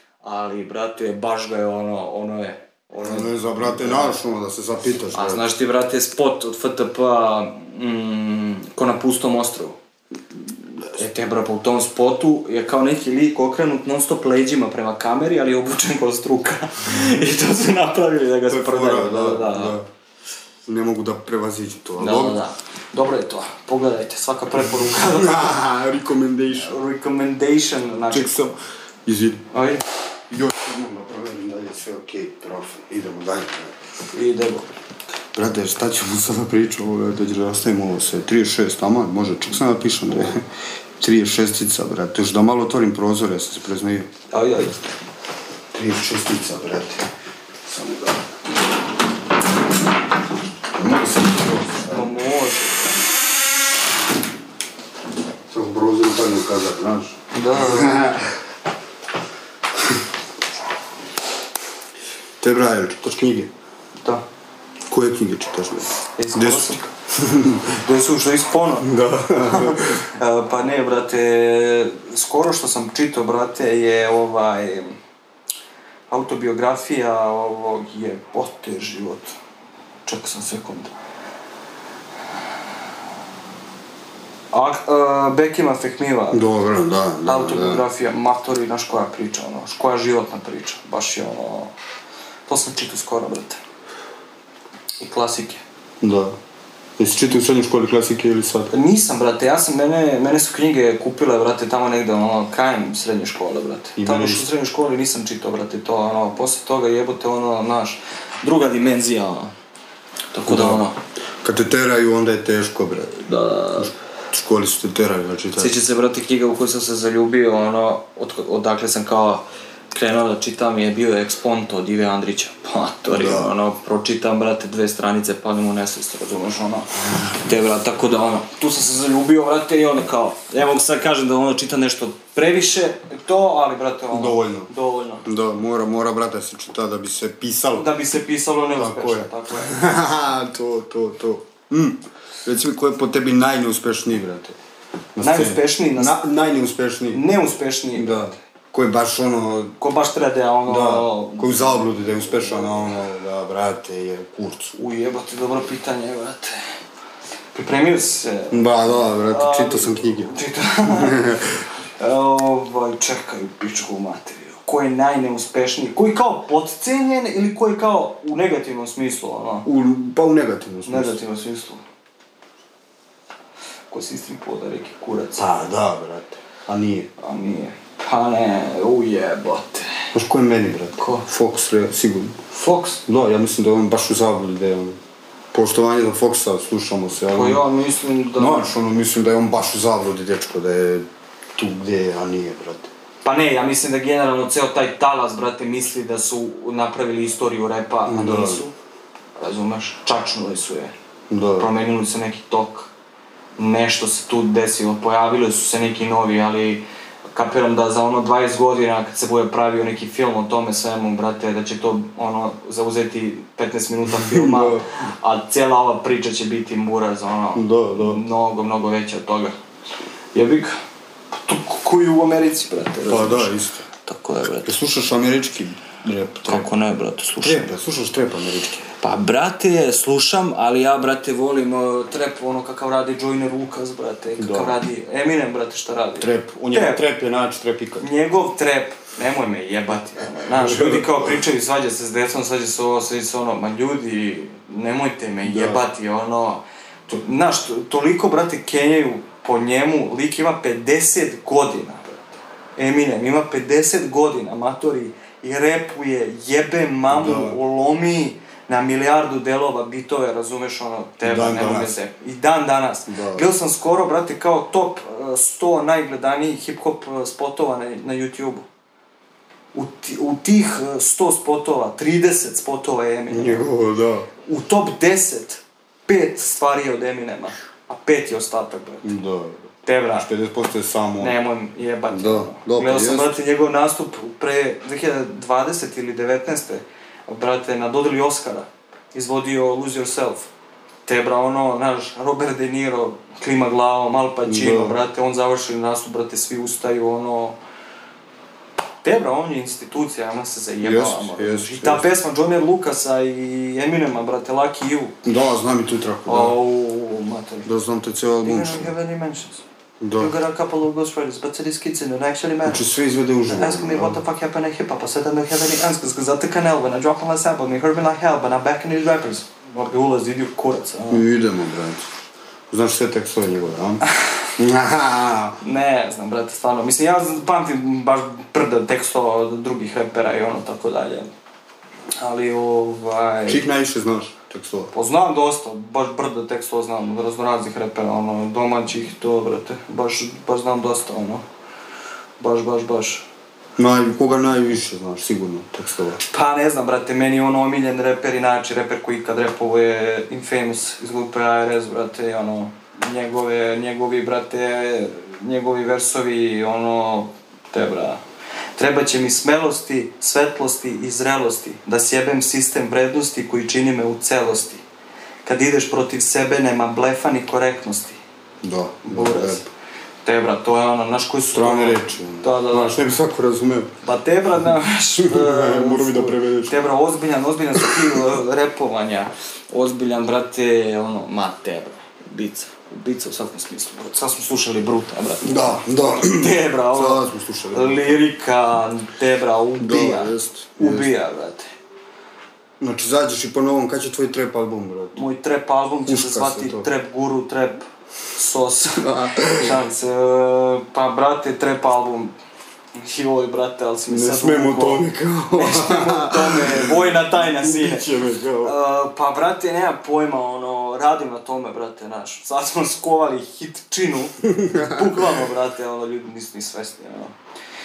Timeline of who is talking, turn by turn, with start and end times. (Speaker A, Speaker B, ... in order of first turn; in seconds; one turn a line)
Speaker A: 0.2-4.2
Speaker B: 3.0-5.4
Speaker A: 5.1-9.8
Speaker A: 10.8-19.8
Speaker B: 18.5-19.9
Speaker B: 20.6-22.4
Speaker A: 22.0-25.5
Speaker B: 24.8-26.8
Speaker A: 26.5-28.4
Speaker B: 28.1-28.5
Speaker B: 29.1-29.4
Speaker A: 29.5-29.8
Speaker B: 30.3-33.8
Speaker A: 34.1-34.7
Speaker B: 35.3-40.5
Speaker B: 41.0-44.1
Speaker A: 44.3-44.9
Speaker B: 45.7-47.1
Speaker B: 47.6-48.2
Speaker B: 50.7-52.1
Speaker A: 51.9-52.9
Speaker B: 55.5-58.3
Speaker A: 57.3-58.0
Speaker B: 62.4-63.5
Speaker B: 64.9-67.8
Speaker A: 66.2-66.9
Speaker A: 67.8-74.9
Speaker B: 68.8-70.0
Speaker A: 76.1-79.3
Speaker A: 80.0-80.9
Speaker A: 84.5-86.4
Speaker B: 86.3-87.8
Speaker A: 87.2-91.7
Speaker A: 92.5-93.6
Speaker A: 95.0-95.6
Speaker B: 96.0-96.3
Speaker B: 97.0-98.7
Speaker A: 98.7-109.5
Speaker B: 104.0-104.5
Speaker A: 110.3-111.0
Speaker B: 110.5-110.8
Speaker B: 111.4-113.2
Speaker A: 113.2-113.9
Speaker B: 113.7-115.8
Speaker A: 115.6-135.2
Speaker B: 123.1-123.5
Speaker B: 134.1-134.7
Speaker B: 135.2-137.9
Speaker A: 137.7-139.8
Speaker B: 138.7-144.6
Speaker B: 145.2-147.2
Speaker A: 145.2-146.2
Speaker A: 147.1-148.4
Speaker B: 147.9-149.8
Speaker A: 149.8-151.8
Speaker B: 150.7-154.8
Speaker A: 154.8-156.6
Speaker A: 157.5-161.4
Speaker B: 158.5-161.6
Speaker A: 162.0-169.7
Speaker B: 169.6-171.2
Speaker A: 170.8-171.8
Speaker A: 173.9-175.6
Speaker B: 175.3-177.1
Speaker A: 177.2-180.1
Speaker B: 180.1-182.4
Speaker A: 181.0-181.2
Speaker A: 182.5-183.0
Speaker B: 183.1-185.0
Speaker B: 185.5-187.6
Speaker A: 187.3-188.7
Speaker B: 188.3-191.0
Speaker B: 191.6-192.9
Speaker A: 193.2-198.7
Speaker B: 198.1-198.6
Speaker A: 199.4-200.9
Speaker B: 201.3-201.7
Speaker A: 201.6-202.9
Speaker A: 203.6-219.5
Speaker B: 214.1-214.8
Speaker B: 217.5-218.2
Speaker A: 220.3-220.7
Speaker A: 221.3-223.5
Speaker B: 223.0-223.8
Speaker A: 224.0-224.8
Speaker B: 224.6-226.7
Speaker A: 226.4-227.7
Speaker B: 227.4-228.9
Speaker A: 229.0-237.0
Speaker B: 234.4-234.8
Speaker B: 236.2-238.1
Speaker A: 238.0-252.2
Speaker B: 240.4-241.4
Speaker B: 245.4-245.8
Speaker A: 252.8-268.6
Speaker B: 257.1-257.6
Speaker B: 261.2-262.0
Speaker B: 263.1-263.5
Speaker A: 269.7-273.6
Speaker B: 273.3-274.3
Speaker A: 274.4-279.1
Speaker B: 279.0-279.6
Speaker A: 279.8-280.3
Speaker B: 280.1-281.4
Speaker A: 281.2-290.5
Speaker B: 282.1-283.4
Speaker A: 291.1-297.6
Speaker B: 294.4-295.0
Speaker A: 299.0-305.2
Speaker B: 300.8-302.0
Speaker B: 305.2-306.5
Speaker A: 306.2-307.7
Speaker B: 307.6-308.9
Speaker A: 308.4-309.6
Speaker B: 310.0-310.3
Speaker A: 310.2-312.8
Speaker B: 312.6-314.2
Speaker A: 313.5-321.2
Speaker B: 321.1-322.1
Speaker B: 322.7-324.0
Speaker B: 324.6-325.6
Speaker A: 325.6-331.3
Speaker A: 332.2-333.6
Speaker B: 333.5-334.9
Speaker A: 334.9-341.4
Speaker A: 342.4-343.2
Speaker B: 343.8-346.2
Speaker A: 346.2-358.2
Speaker A: 358.8-364.8
Speaker A: 365.4-368.2
Speaker B: 368.6-369.6
Speaker A: 369.1-369.7
Speaker A: 370.2-373.0
Speaker B: 371.5-373.9
Speaker A: 374.0-391.7
Speaker B: 375.2-376.8
Speaker B: 377.8-378.2
Speaker B: 385.4-388.2
Speaker B: 389.8-391.1
Speaker B: 392.8-395.2
Speaker A: 395.1-402.3
Speaker B: 396.1-396.9
Speaker B: 399.0-399.8
Speaker A: 402.9-408.1
Speaker B: 404.1-408.7
Speaker A: 408.6-417.3
Speaker B: 414.5-415.4